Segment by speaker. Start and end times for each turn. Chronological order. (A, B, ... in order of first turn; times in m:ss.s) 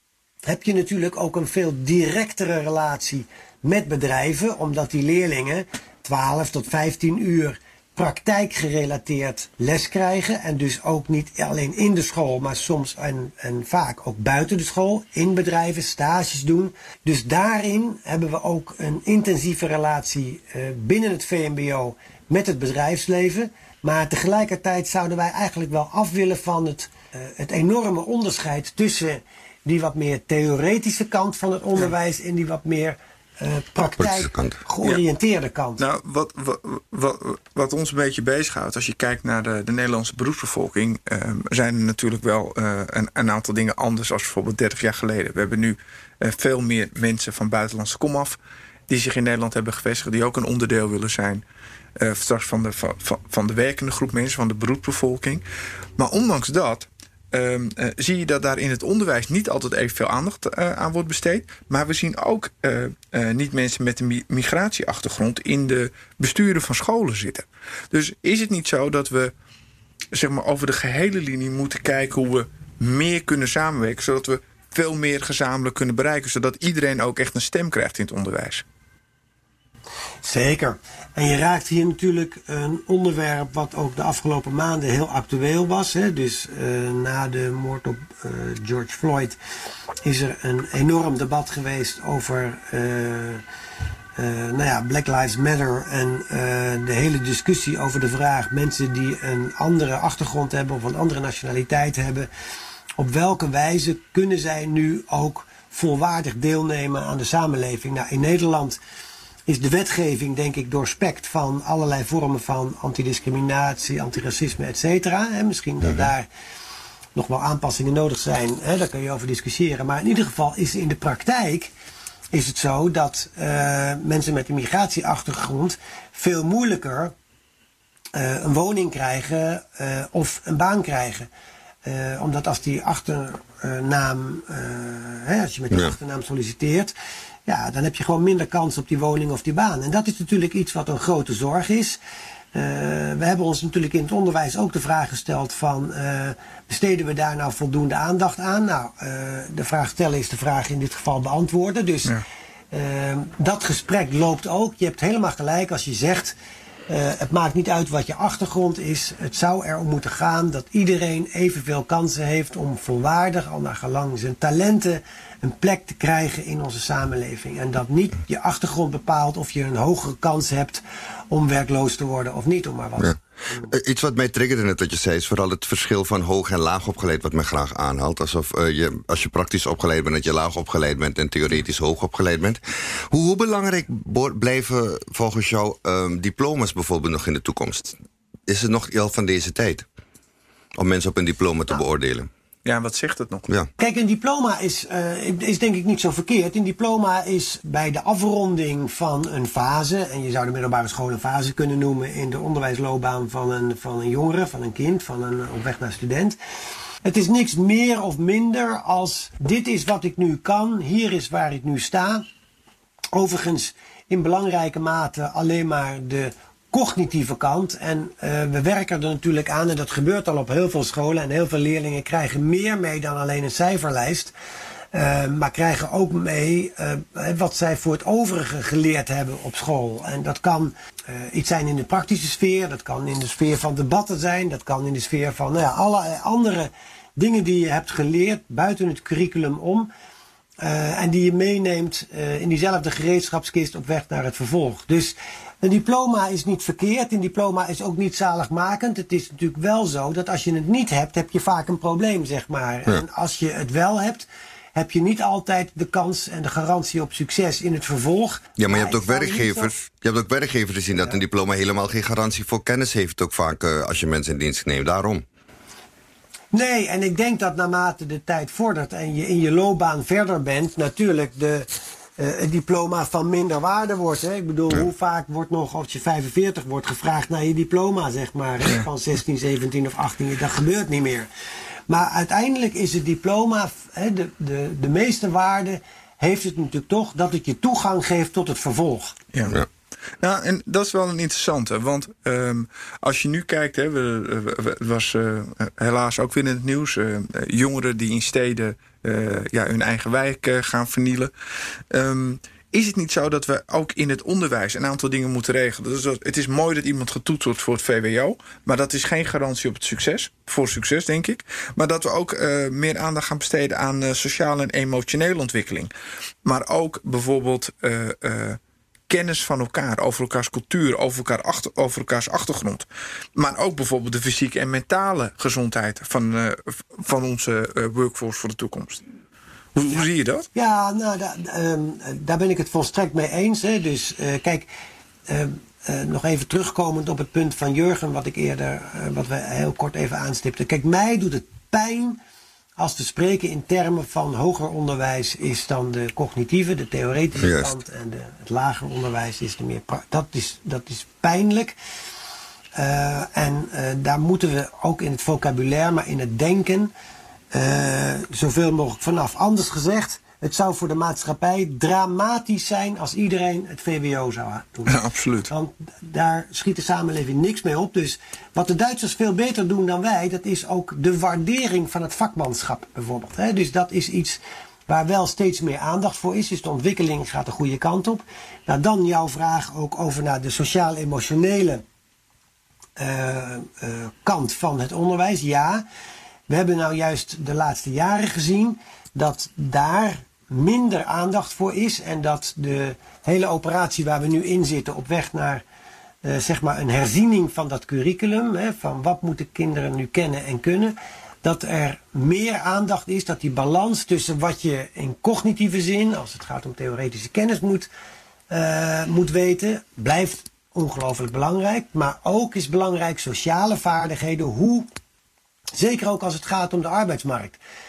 0:00.4-0:35.8 A
0:34.0-0:34.6 B
0:35.8-0:48.4 C
0:48.9-0:51.4 C
0:52.0-0:55.4 C
0:56.0-1:09.3 C
1:10.1-1:18.6 C
1:20.2-1:29.4 A
1:30.0-1:33.4 A
1:34.2-1:42.3 A
1:43.0-1:48.8 A
1:49.5-1:56.3 A
1:57.2-2:01.7 A
2:02.3-2:07.1 A
2:08.1-2:11.3 A
2:11.8-2:16.9 A
2:17.5-2:22.0 A
2:22.5-2:32.2 A
2:32.7-2:36.3 A
2:36.9-2:53.7 A
2:53.0-3:02.6 B
3:03.1-3:08.0 B
3:08.5-3:09.9 B
3:10.8-3:12.3 B
3:12.6-3:13.4 C
3:13.8-3:26.4 A
3:27.0-3:32.2 A
3:33.1-3:44.3 A
3:44.9-3:59.9 A
4:00.6-4:19.7 A
4:18.6-4:25.2 B
4:26.5-4:41.3 A
4:41.9-4:49.2 A
4:49.3-4:49.6 C
4:50.2-5:01.3 C
5:01.9-5:15.9 C
5:16.4-5:22.8 C
5:23.4-5:29.0 C
5:29.8-5:30.5 C
5:30.6-5:34.7 A
5:35.3-5:42.2 A
5:42.8-5:51.8 A
5:47.4-5:47.8 B
5:52.8-5:56.9 A
5:57.5-6:21.8 A
6:04.9-6:05.5 C
6:23.0-6:25.8 A
6:26.5-6:35.6 A
6:36.2-6:47.9 A
6:48.5-6:54.9 A
6:55.8-6:57.6 A